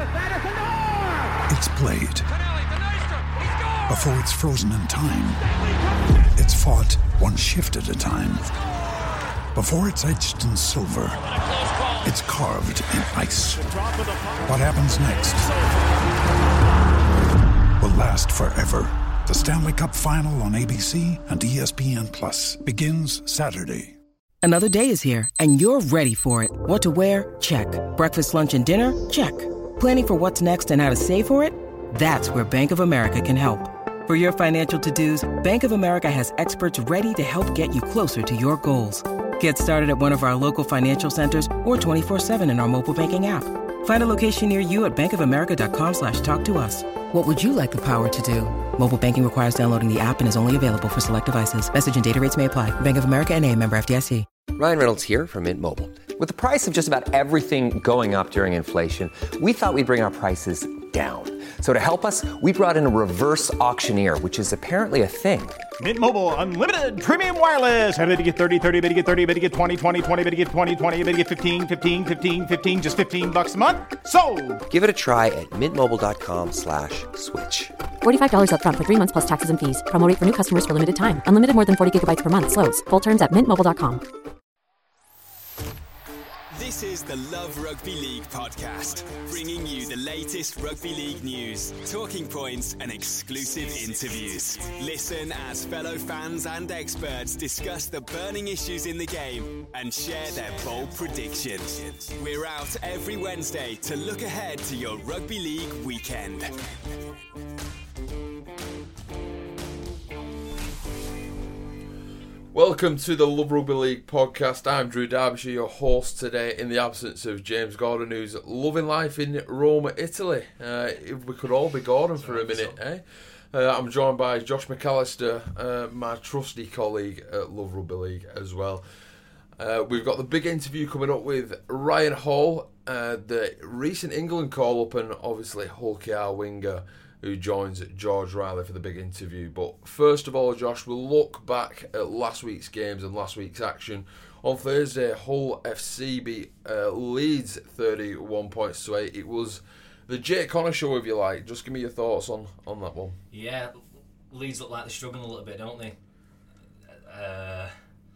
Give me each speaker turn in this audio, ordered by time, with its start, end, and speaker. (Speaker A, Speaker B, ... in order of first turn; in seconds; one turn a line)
Speaker A: 1.5-2.3
Speaker A: 3.9-5.6
Speaker A: 6.3-8.5
Speaker A: 9.5-11.4
Speaker A: 12.0-13.6
Speaker A: 14.4-15.5
Speaker A: 17.8-24.0
Speaker B: 24.4-54.3
Speaker C: 54.5-65.6
Speaker D: 65.8-74.6
Speaker C: 74.7-77.8
Speaker E: 78.0-84.0
Speaker F: 86.5-106.8
Speaker G: 112.5-128.8
Speaker H: 122.2-122.8
Speaker G: 129.6-153.2
Speaker H: 153.3-156.0
Speaker H: 156.9-157.7